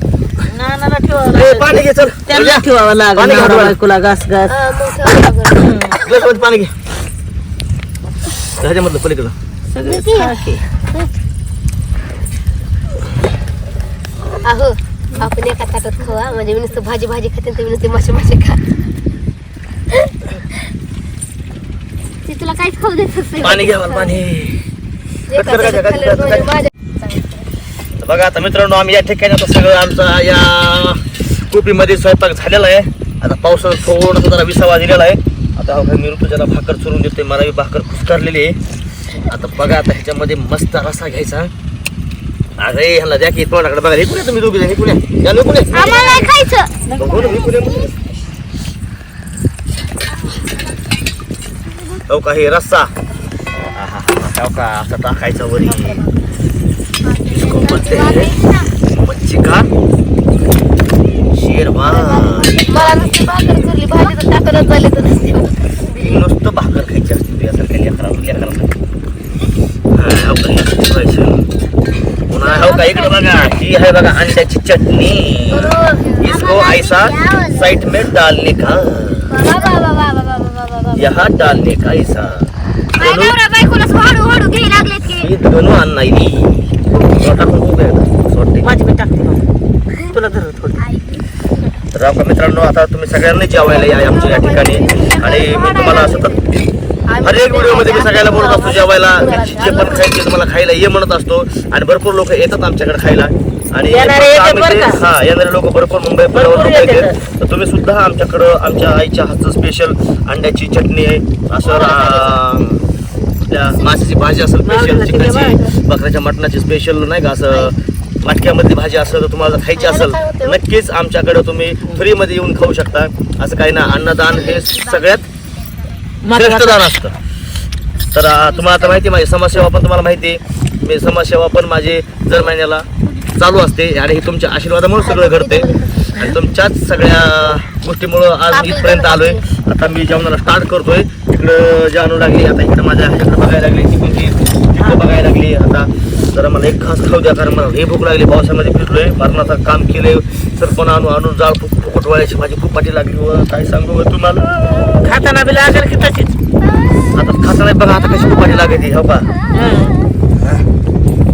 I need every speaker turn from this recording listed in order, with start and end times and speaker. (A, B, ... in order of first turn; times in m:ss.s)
0:00.5-0:01.7 A
0:01.3-0:02.6 B
0:02.3-0:04.5 A
0:03.2-0:03.8 B
0:04.4-0:05.7 C
0:05.6-0:05.9 A
0:05.9-0:06.7 B
0:08.6-0:09.4 B
0:09.7-0:10.6 A
0:09.8-0:10.3 C
0:14.4-0:18.6 C
0:22.3-0:24.2 C
0:23.4-0:24.6 B
0:25.3-0:27.5 C
0:25.3-0:26.5 B
0:28.0-0:38.6 B
0:39.2-0:41.5 B
0:42.6-0:46.1 B
0:45.7-0:46.4 A
0:45.7-0:46.7 C
0:46.9-0:47.3 A
0:47.0-0:47.9 B
0:52.1-0:52.9 B
0:53.6-0:56.0 B
0:55.7-0:56.2 C
0:57.2-0:58.6 C
0:57.3-0:59.7 B
1:01.3-1:03.2 B
1:01.9-1:06.2 C
1:05.9-1:08.8 B
1:09.9-1:11.4 B
1:12.3-1:19.4 B
1:12.4-1:13.2 C
1:15.5-1:16.4 C
1:19.3-1:21.1 C
1:21.0-1:23.4 B
1:23.0-1:25.3 C
1:25.2-1:28.7 B
1:28.6-1:29.4 A
1:30.1-1:30.8 A
1:31.9-1:36.3 B
1:33.6-1:36.4 C
1:37.1-1:40.1 C
1:37.2-1:52.8 B
1:43.9-1:45.0 A
1:46.3-1:47.2 A
1:51.6-1:52.4 C
1:53.4-2:05.2 B
1:54.6-1:55.7 A
1:59.7-2:00.6 C
2:04.2-2:05.0 C
2:06.2-2:06.8 A
2:06.3-2:07.1 B
2:08.1-2:35.2 B
2:15.0-2:16.2 C
2:18.5-2:19.5 C
2:35.0-2:36.3 A
2:37.1-2:39.3 B
2:39.5-2:40.0 A